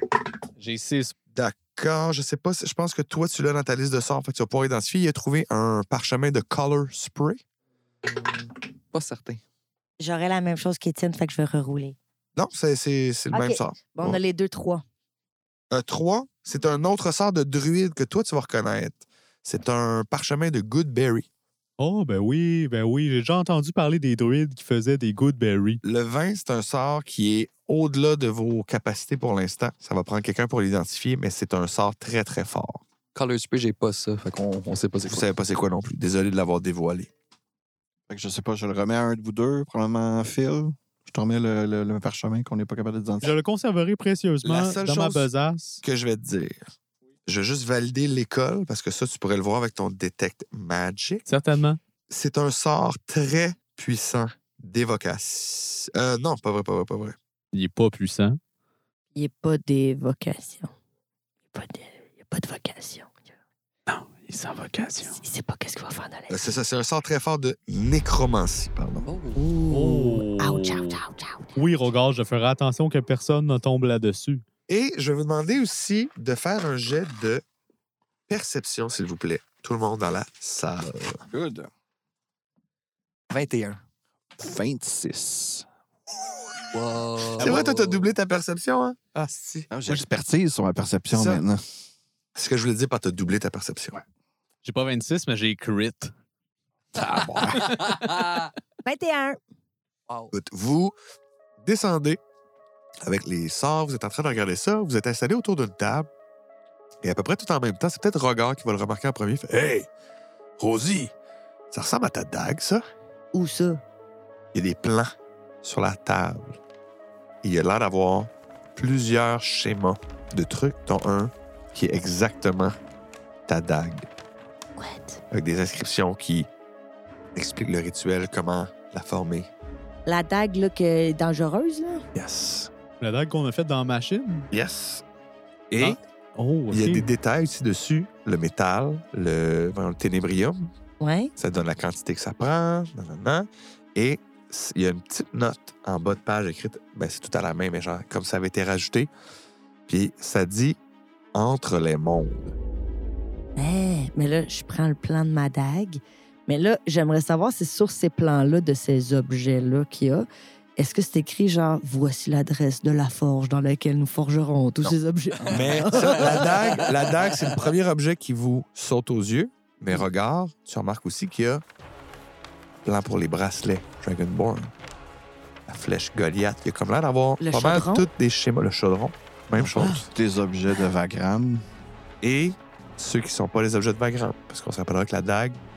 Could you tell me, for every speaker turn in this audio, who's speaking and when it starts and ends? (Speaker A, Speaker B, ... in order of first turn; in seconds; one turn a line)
Speaker A: 0.6-1.1
Speaker B: 1.3-7.4
Speaker C: 8.0-9.4
Speaker D: 10.0-11.9
Speaker B: 12.3-14.2
Speaker D: 13.3-14.8
Speaker B: 15.7-21.3
Speaker A: 21.8-25.8
Speaker B: 25.8-32.8
Speaker C: 33.1-35.3
Speaker B: 35.0-37.1
Speaker E: 38.1-43.3
Speaker A: 43.2-45.8
Speaker B: 44.4-45.3
Speaker B: 45.8-46.6
Speaker B: 47.2-51.2
Speaker A: 51.2-51.8
Speaker B: 52.1-57.1
Speaker A: 57.5-58.4
Speaker D: 59.1-60.7
Speaker D: 61.5-63.1
Speaker A: 63.9-65.2
Speaker D: 65.2-66.5
Speaker B: 66.3-69.1
Speaker C: 69.1-69.4
Speaker D: 69.3-71.5
Speaker A: 69.7-71.0
Speaker A: 71.5-74.4
Speaker B: 74.7-77.4
Speaker B: 78.3-81.2
Speaker E: 81.3-81.7
Speaker C: 83.3-83.8
Speaker E: 84.4-85.7
Speaker C: 86.7-88.1
Speaker B: 87.4-90.0
Speaker E: 89.7-91.6
Speaker B: 91.1-91.4
Speaker B: 92.3-94.0
Speaker A: 94.6-96.1
Speaker E: 97.0-97.7
Speaker C: 97.5-98.5
Speaker D: 98.8-99.4
Speaker C: 100.1-100.3
Speaker B: 100.3-100.9
Speaker B: 101.6-102.2
Speaker B: 103.0-106.1
Speaker B: 107.0-109.9
Speaker B: 110.6-111.1
Speaker B: 111.7-112.8
Speaker D: 113.3-113.8
Speaker B: 114.5-116.6
Speaker B: 117.4-122.8
Speaker B: 123.5-124.1
Speaker D: 124.8-125.2
Speaker B: 125.3-126.5
Speaker B: 127.3-129.5
Speaker D: 130.1-132.0
Speaker B: 132.1-132.7
Speaker A: 133.0-134.5
Speaker B: 134.5-135.0
Speaker B: 135.7-136.0
Speaker A: 135.8-137.1
Speaker B: 136.7-140.7
Speaker D: 141.0-141.3
Speaker B: 141.4-149.1
Speaker B: 149.9-150.8
Speaker B: 151.3-152.6
Speaker D: 153.6-166.5
Speaker C: 165.4-166.9
Speaker B: 165.5-171.6
Speaker B: 172.8-174.7
Speaker B: 175.7-180.0
Speaker D: 177.4-178.1
Speaker E: 179.6-181.6
Speaker B: 182.2-185.6